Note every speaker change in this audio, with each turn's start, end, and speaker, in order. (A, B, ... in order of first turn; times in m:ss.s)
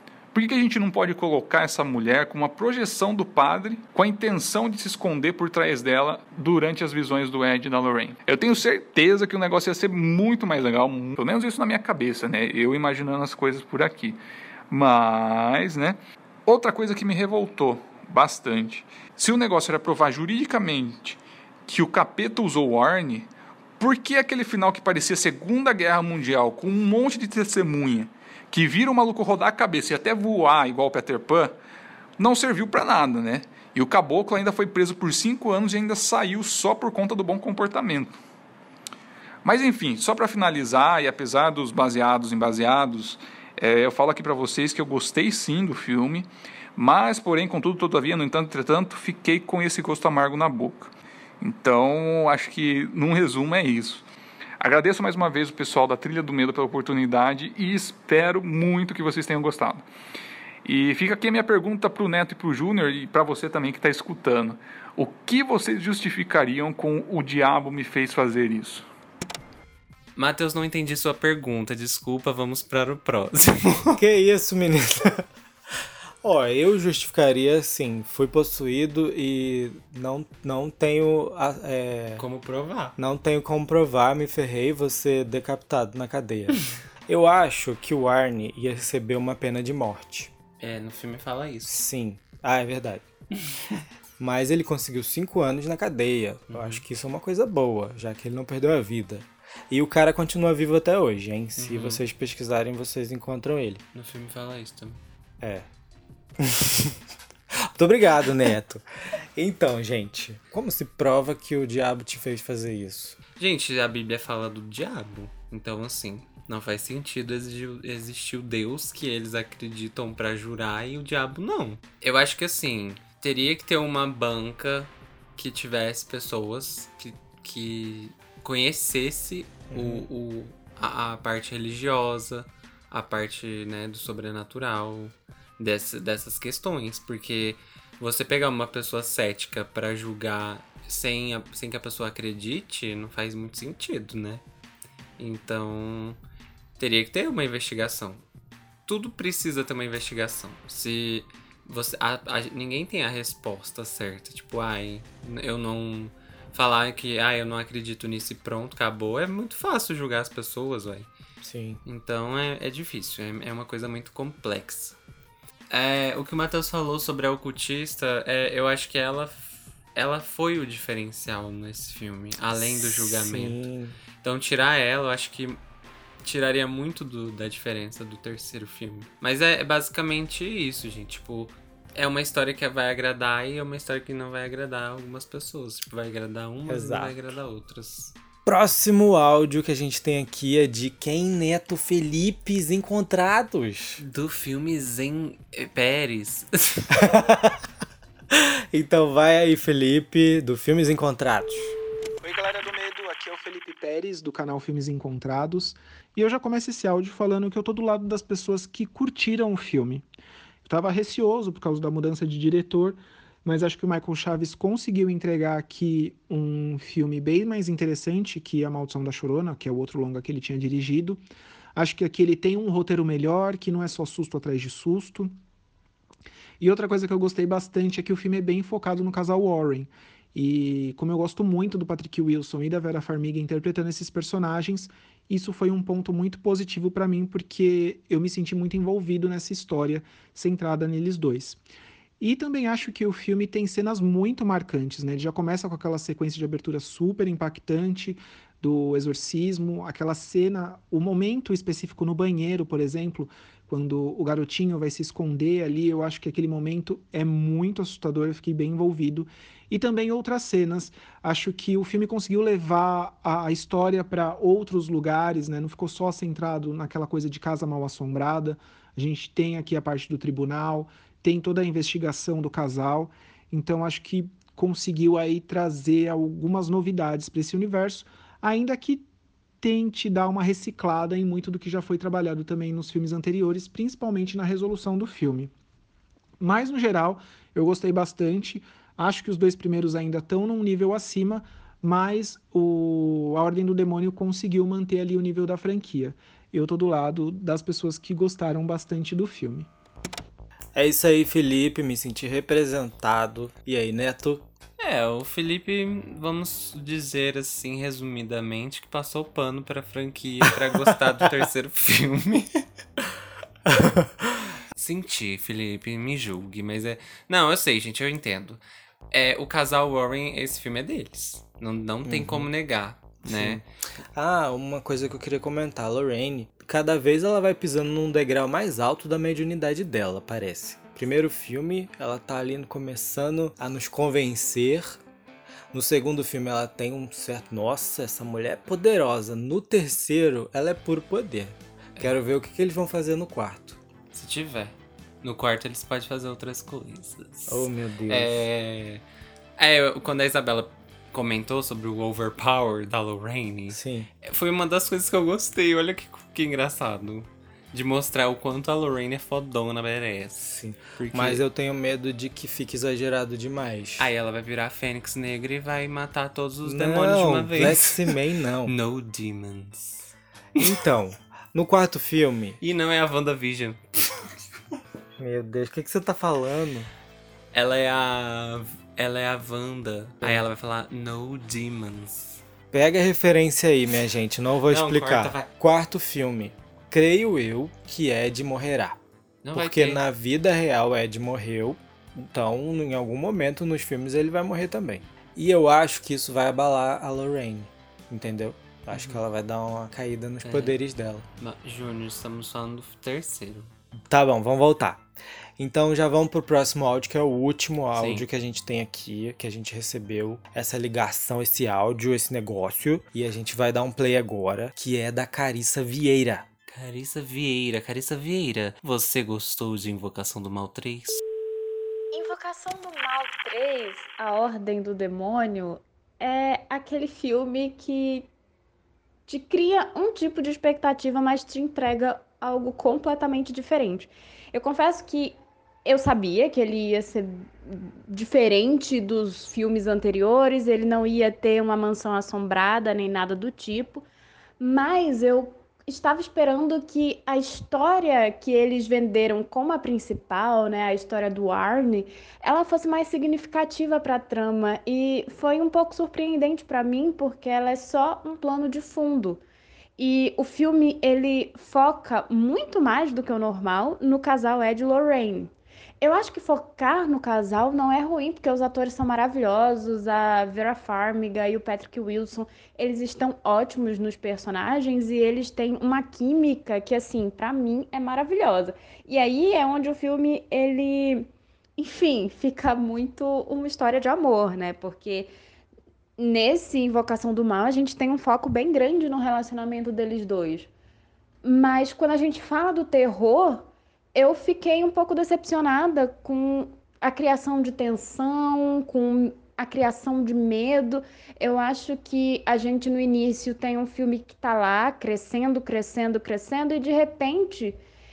0:00.3-0:31.6 A
0:32.2-0:38.2 A
0:39.4-0:54.0 A
0:54.6-0:59.9 A
1:00.6-1:08.9 A
1:10.2-1:14.0 B
1:14.0-1:15.3 C
1:16.2-1:22.2 C
1:22.2-1:23.0 B
1:23.0-1:30.3 C
1:30.6-1:31.8 B
1:31.7-1:33.0 C
1:34.2-1:43.8 C
1:36.5-1:36.8 B
1:41.6-1:42.0 B
1:43.9-1:45.0 B
1:45.4-1:45.7 C
1:46.4-1:47.0 C
1:47.7-1:53.2 C
1:53.4-2:24.4 B
2:09.7-2:10.1 C
2:25.2-2:26.2 B
2:26.8-2:28.2 B
2:28.9-2:41.1 B
2:41.4-2:41.8 C
2:41.8-2:45.0 B
2:45.7-2:53.6 B
2:52.5-2:54.0 C
2:54.2-2:55.6 B
2:56.2-3:08.1 B
3:06.7-3:07.4 C
3:08.4-3:14.0 C
3:14.0-3:17.1 B
3:16.9-3:17.6 C
3:18.3-3:21.7 C
3:22.2-3:30.0 D
3:30.6-3:41.2 D
3:41.7-3:45.3 D
3:46.6-4:01.6 D
4:02.2-4:39.0 D
4:39.6-4:45.5 D
4:46.4-4:59.7 D
5:00.7-5:04.5 C
5:04.8-5:12.7 B
5:13.7-5:14.1 C
5:14.7-5:23.6 B
5:22.0-5:22.5 C
5:23.2-5:35.0 C
5:35.7-5:43.8 C
5:44.1-5:49.0 B
5:47.5-5:48.4 C
5:49.6-6:01.4 B
5:53.7-5:54.1 C
6:00.4-6:04.1 C
6:04.0-6:08.1 B
6:06.6-6:08.7 C
6:08.7-6:10.1 B
6:10.6-6:12.6 C
6:12.6-6:14.2 B
6:15.2-6:16.9 C
6:17.5-6:22.4 B
6:22.7-6:29.0 C
6:24.7-6:25.5 B
6:29.4-6:30.0 B
6:29.6-6:41.2 C
6:38.9-6:39.2 B
6:40.4-6:40.8 B
6:41.4-6:43.7 B
6:44.1-6:45.1 C
6:45.6-6:56.5 C
6:48.0-6:48.3 B
6:56.7-7:01.2 B
7:02.1-7:08.3 E
7:09.3-7:24.0 E
7:24.6-7:39.4 E
7:40.0-8:05.3 E
8:06.2-8:10.7 E
8:11.4-8:27.8 E